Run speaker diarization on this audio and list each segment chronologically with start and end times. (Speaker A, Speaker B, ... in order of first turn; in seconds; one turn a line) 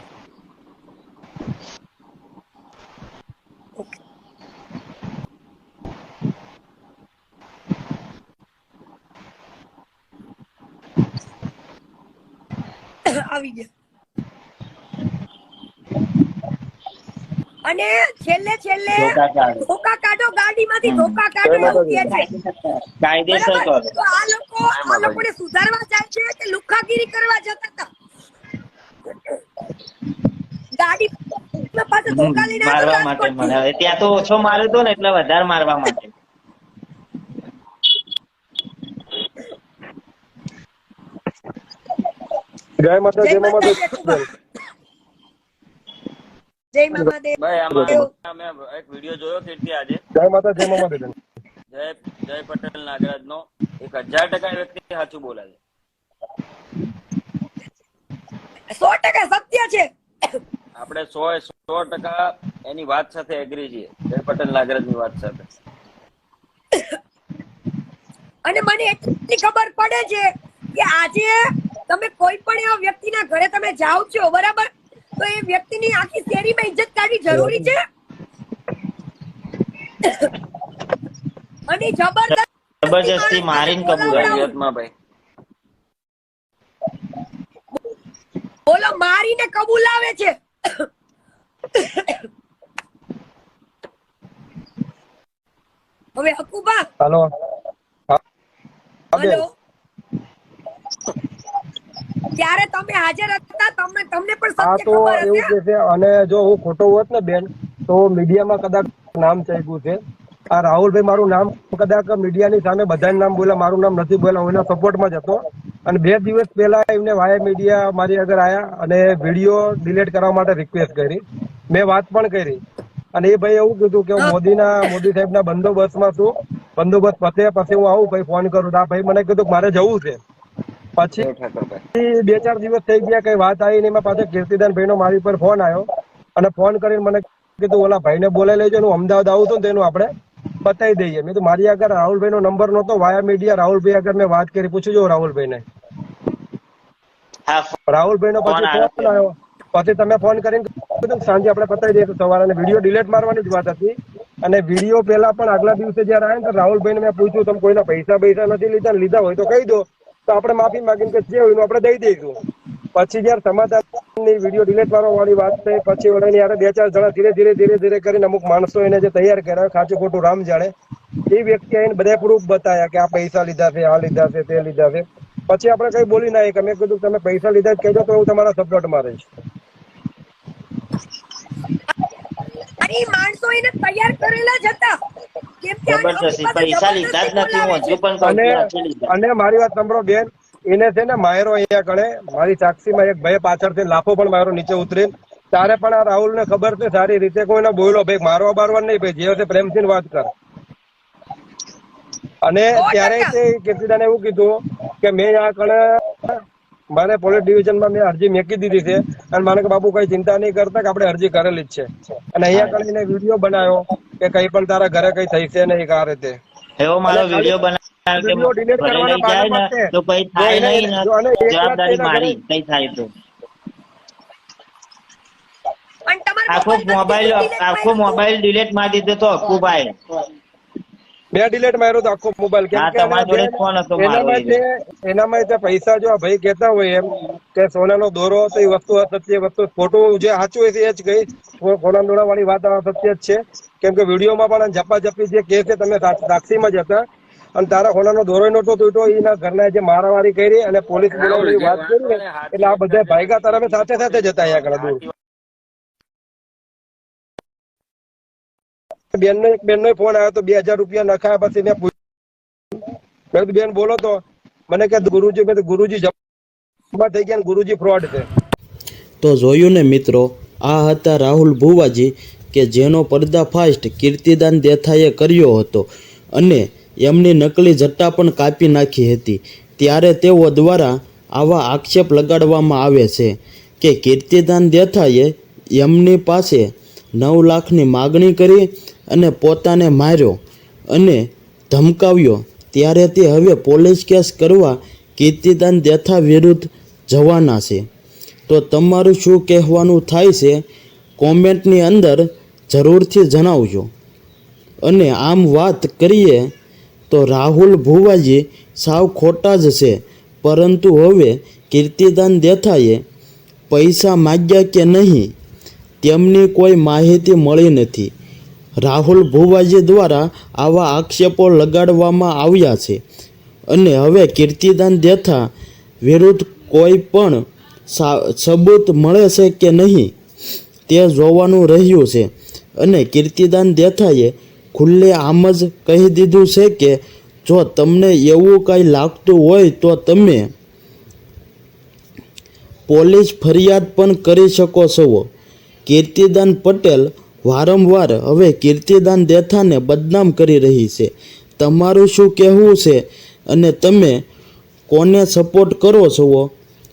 Speaker A: 13.2-13.7
Speaker A: 17.6-22.3
Speaker B: 19.0-19.6
Speaker B: 20.8-23.9
Speaker C: 21.4-22.1
Speaker A: 23.3-27.9
Speaker D: 24.7-25.2
Speaker A: 30.8-33.5
Speaker B: 32.1-36.1
Speaker C: 42.8-44.2
Speaker A: 43.2-44.2
Speaker A: 46.7-48.1
Speaker D: 47.4-50.0
Speaker C: 47.7-48.0
Speaker C: 50.2-51.1
Speaker D: 51.7-55.6
Speaker A: 58.8-60.4
Speaker D: 60.8-65.4
Speaker A: 68.4-71.3
Speaker A: 71.9-77.8
Speaker A: 80.0-80.3
Speaker A: 81.7-84.5
Speaker B: 82.8-84.4
Speaker D: 84.0-84.9
Speaker A: 88.7-90.8
Speaker A: 91.8-92.3
Speaker A: 96.2-96.8
Speaker C: 97.0-97.3
Speaker C: 99.2-99.4
Speaker A: 99.2-99.5
Speaker A: 102.4-105.5
Speaker C: 104.6-110.0
Speaker C: 110.5-122.6
Speaker C: 123.1-130.2
Speaker C: 131.0-131.3
Speaker D: 131.2-131.8
Speaker C: 132.0-135.8
Speaker C: 136.4-140.1
Speaker C: 140.6-145.6
Speaker B: 147.5-147.8
Speaker C: 147.9-162.3
Speaker B: 148.4-149.2
Speaker C: 162.9-170.7
Speaker C: 171.3-179.3
Speaker A: 182.8-184.9
Speaker A: 185.6-188.0
Speaker B: 185.9-189.1
Speaker C: 188.2-200.3
Speaker C: 202.4-206.3
Speaker A: 202.8-203.3
Speaker C: 206.9-216.4
Speaker B: 212.5-212.8
Speaker B: 216.8-223.1
Speaker C: 217.1-217.6
Speaker C: 218.2-222.4
Speaker A: 226.1-228.2
Speaker B: 226.5-229.9
Speaker C: 231.3-247.0
Speaker B: 232.7-234.6
Speaker C: 247.6-255.0
Speaker D: 251.1-255.1
Speaker C: 259.1-261.9
Speaker C: 263.3-266.1
Speaker C: 266.9-268.3
Speaker E: 269.2-297.9
Speaker E: 298.5-300.6
Speaker E: 301.2-303.9
Speaker E: 304.8-306.5
Speaker E: 307.1-313.0
Speaker E: 313.7-315.3
Speaker E: 316.0-318.1
Speaker E: 318.8-323.0
Speaker E: 323.7-325.5
Speaker E: 326.0-330.1
Speaker E: 330.9-340.5
Speaker E: 342.9-345.3
Speaker E: 345.9-354.2
Speaker E: 354.9-356.5